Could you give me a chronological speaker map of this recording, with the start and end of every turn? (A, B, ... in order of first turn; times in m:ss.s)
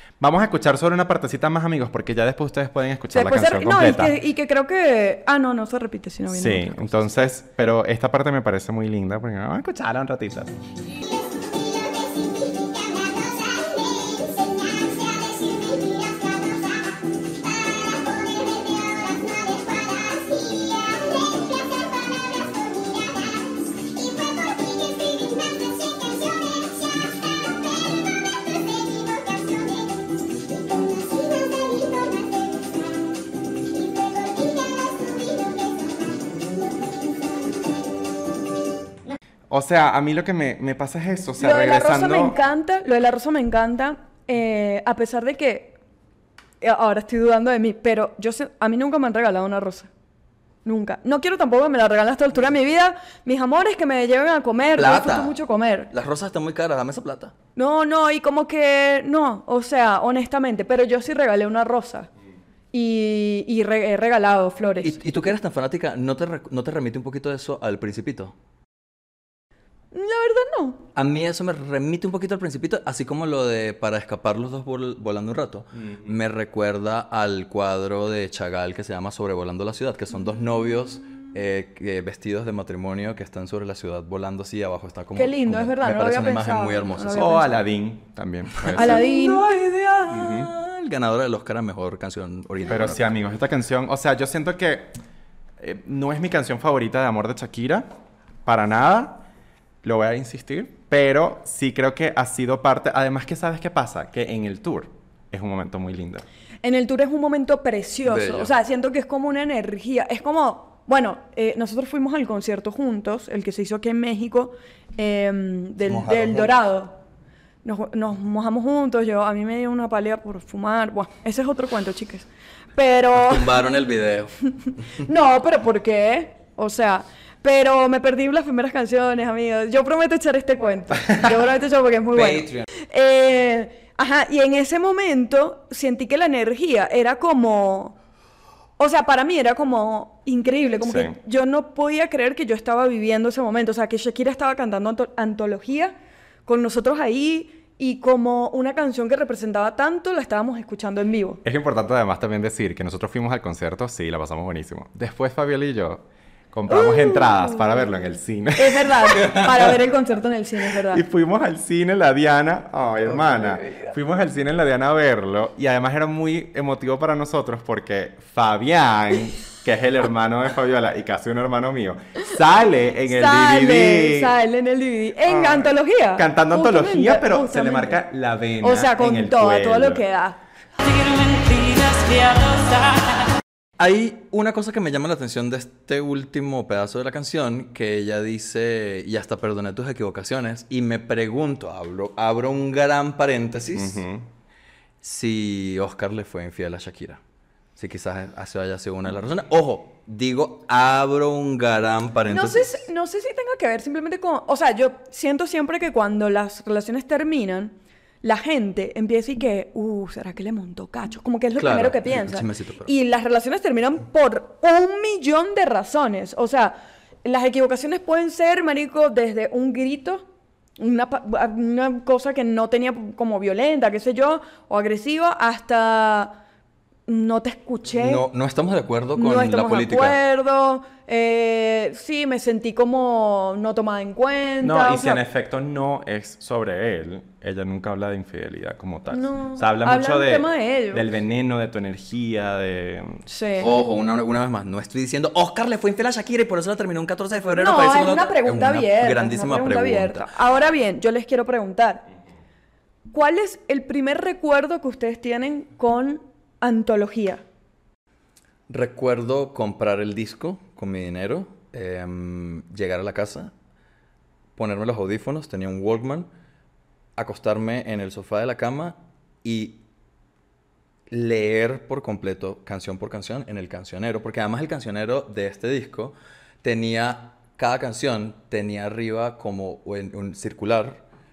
0:00.2-0:04.2 A
0:03.1-0:07.3 B
0:06.3-0:10.5 A
0:39.5-0:42.4 A
0:41.4-0:45.8 B
0:46.6-0:49.9 B
0:50.6-0:55.9 B
0:54.7-0:55.4 C
0:55.9-0:57.3 C
0:57.6-1:02.1 B
1:02.7-1:05.0 B
1:04.8-1:08.3 C
1:09.9-1:10.8 B
1:11.0-1:27.3 C
1:15.7-1:16.1 A
1:25.1-1:27.5 B
1:27.1-1:29.0 A
1:28.6-1:33.1 C
1:28.7-1:29.4 B
1:30.1-1:30.5 A
1:32.7-1:35.0 A
1:35.6-1:37.9 A
1:38.4-1:39.2 A
1:39.8-1:46.2 A
1:46.6-1:57.0 B
1:48.1-1:48.5 C
1:55.9-1:56.6 C
1:57.6-2:03.6 B
2:03.1-2:04.4 C
2:05.0-2:18.0 B
2:12.1-2:12.7 C
2:18.8-2:26.0 B
2:20.8-2:21.2 A
2:26.4-2:31.4 B
2:31.4-2:39.7 A
2:36.7-2:37.9 B
2:38.6-2:41.0 B
2:40.9-2:54.3 A
2:43.1-2:44.0 C
2:53.1-2:58.0 B
2:55.2-3:00.0 A
2:58.6-3:00.4 B
3:01.0-3:02.7 C
3:03.8-3:14.0 C
3:13.7-3:14.3 A
3:15.0-3:17.2 C
3:17.8-3:22.8 C
3:22.3-3:40.2 B
3:31.6-3:32.9 C
3:40.8-3:46.4 B
3:47.1-3:48.2 B
3:47.9-3:50.2 C
3:49.2-3:55.2 B
3:54.6-4:03.2 A
3:59.1-4:01.0 B
4:03.3-4:03.7 B
4:03.6-4:10.3 C
4:07.6-4:12.1 B
4:13.1-4:17.4 B
4:18.7-4:23.5 C
4:24.6-4:26.3 C
4:27.2-4:29.8 C
4:31.1-4:41.0 C